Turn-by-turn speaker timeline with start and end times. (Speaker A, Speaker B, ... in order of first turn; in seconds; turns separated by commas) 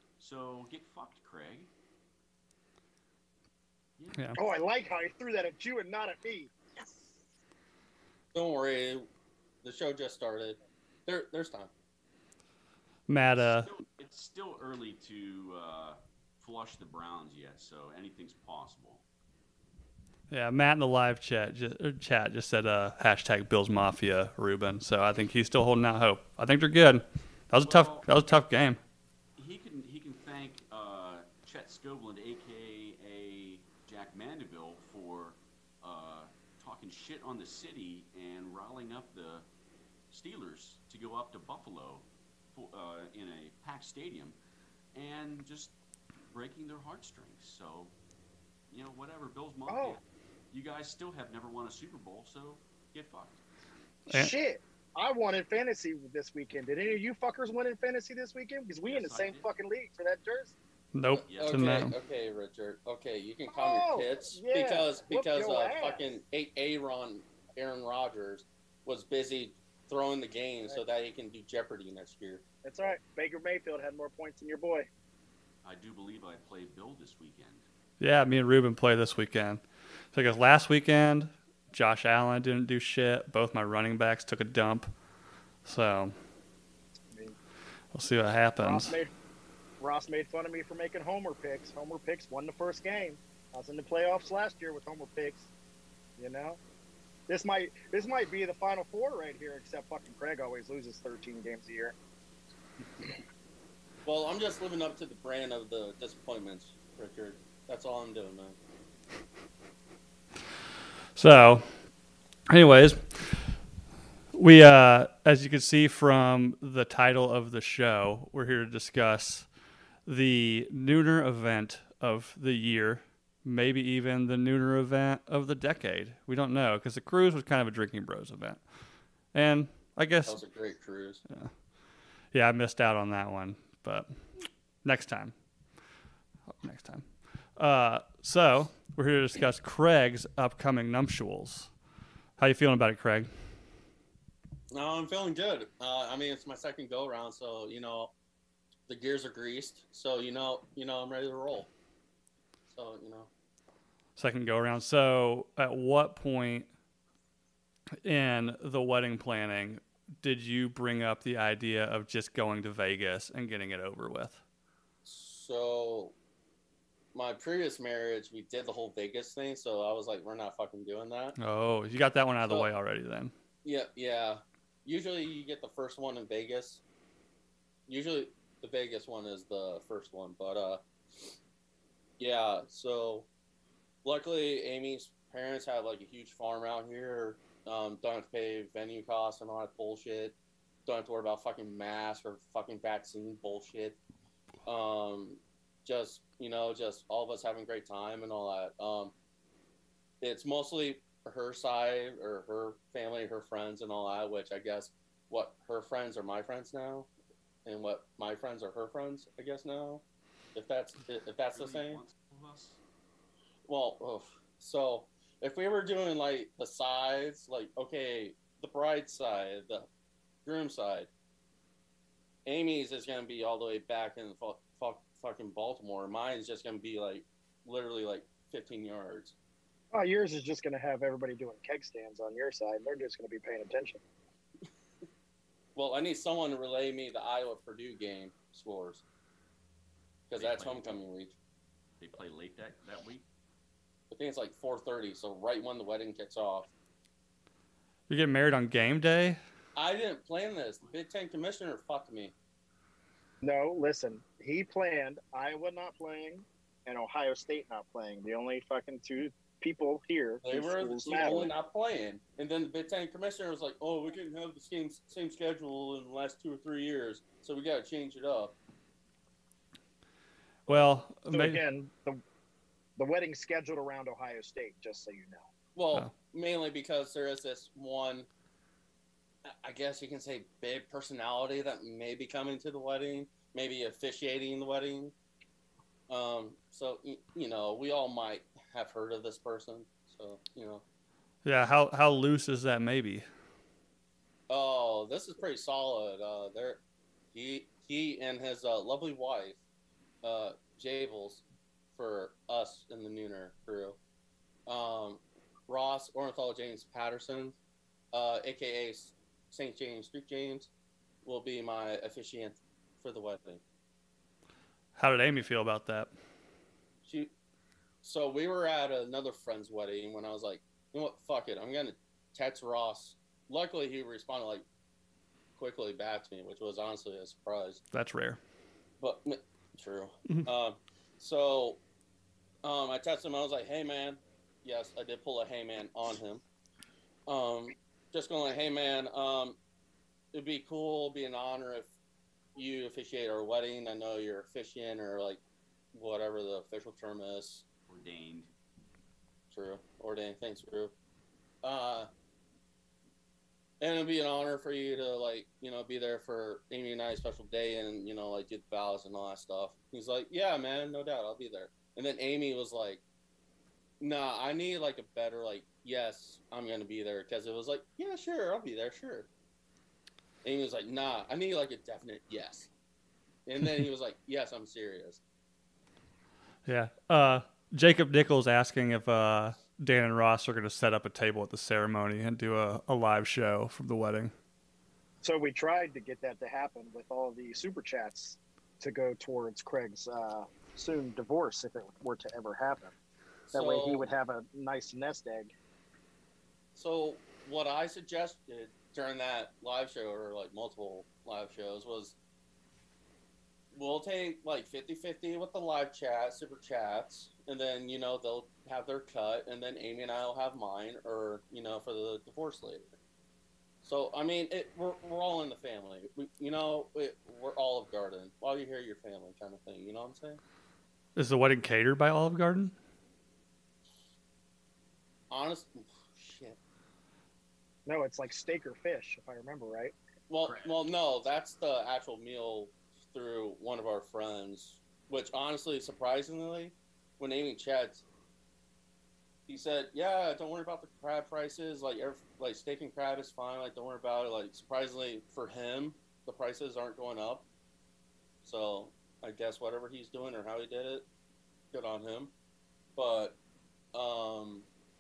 Speaker A: 0.2-1.7, Speaker A: 4.0-4.4, Speaker B: 4.4-6.5, Speaker C: 8.3-9.1, Speaker C: 9.6-11.7, Speaker D: 13.1-13.7, Speaker A: 13.3-19.0, Speaker D: 20.3-28.8, Speaker A: 27.6-28.1, Speaker A: 29.4-39.5, Speaker A: 40.1-44.4, Speaker A: 44.9-45.8, Speaker A: 46.3-47.9, Speaker A: 48.7-53.4, Speaker B: 49.7-50.0, Speaker B: 54.1-60.6, Speaker A: 58.9-59.5, Speaker D: 60.9-61.9, Speaker A: 61.3-61.9, Speaker C: 61.3-72.4, Speaker B: 63.5-66.0, Speaker B: 72.6-74.9, Speaker A: 75.6-77.7, Speaker D: 78.0-84.9, Speaker D: 85.7-86.2, Speaker D: 87.9-88.9, Speaker B: 88.6-89.1, Speaker B: 89.8-95.5, Speaker B: 96.2-96.6, Speaker B: 97.3-102.0, Speaker C: 104.0-108.6, Speaker D: 111.2-111.7, Speaker D: 112.5-113.5, Speaker D: 114.3-119.5, Speaker D: 120.1-128.6, Speaker D: 129.3-130.4, Speaker C: 130.2-131.2, Speaker D: 132.3-134.2, Speaker D: 134.8-135.3, Speaker D: 136.6-141.7, Speaker D: 142.4-143.3, Speaker C: 144.7-148.1, Speaker C: 148.9-151.7, Speaker C: 152.7-153.3, Speaker D: 154.2-156.7, Speaker D: 158.0-164.4, Speaker C: 165.1-166.2, Speaker C: 167.1-171.4, Speaker D: 171.4-173.3, Speaker C: 173.6-176.8, Speaker C: 177.9-181.3, Speaker C: 182.2-183.3, Speaker C: 184.0-190.3, Speaker C: 190.9-194.0, Speaker C: 194.7-199.1, Speaker C: 200.2-207.1, Speaker C: 207.7-210.0, Speaker C: 210.6-212.0, Speaker A: 211.5-212.8, Speaker C: 213.7-219.9, Speaker C: 220.4-221.1, Speaker C: 222.5-229.4, Speaker B: 229.9-234.0, Speaker C: 235.8-239.0, Speaker C: 240.3-241.4, Speaker A: 240.4-240.9, Speaker A: 242.0-243.2, Speaker C: 244.1-246.7, Speaker D: 248.1-249.4, Speaker C: 249.8-252.3, Speaker B: 253.4-261.5, Speaker C: 260.4-268.6, Speaker D: 270.7-271.6, Speaker B: 271.3-272.2, Speaker B: 273.0-275.5, Speaker C: 275.8-278.3, Speaker C: 279.4-285.1, Speaker C: 286.1-290.8, Speaker D: 291.4-293.3, Speaker C: 294.5-296.8, Speaker C: 297.3-299.6, Speaker C: 300.2-301.4, Speaker C: 302.0-304.0, Speaker C: 304.7-307.6, Speaker C: 308.1-310.7, Speaker C: 311.2-313.6, Speaker D: 315.0-316.1, Speaker C: 317.1-317.3, Speaker C: 318.0-324.6, Speaker C: 325.6-327.8, Speaker D: 327.9-328.4, Speaker C: 329.0-331.8, Speaker C: 332.6-336.4, Speaker C: 337.3-339.6, Speaker C: 340.3-341.9, Speaker C: 342.6-345.4, Speaker C: 345.9-347.6, Speaker A: 347.9-348.5, Speaker C: 349.5-350.9, Speaker C: 351.6-352.1, Speaker C: 353.8-363.0, Speaker C: 364.0-369.3, Speaker C: 370.4-372.7, Speaker C: 373.5-375.2, Speaker D: 376.7-384.3, Speaker B: 385.2-392.9, Speaker C: 393.5-394.1, Speaker B: 393.5-395.5, Speaker C: 396.8-402.2, Speaker C: 403.7-412.9, Speaker C: 413.8-420.4, Speaker D: 421.2-422.7, Speaker C: 425.3-426.6, Speaker B: 427.9-429.9, Speaker C: 430.3-438.0, Speaker C: 439.5-447.5, Speaker C: 448.4-451.1, Speaker C: 451.7-452.3, Speaker C: 453.0-453.4, Speaker C: 453.9-454.7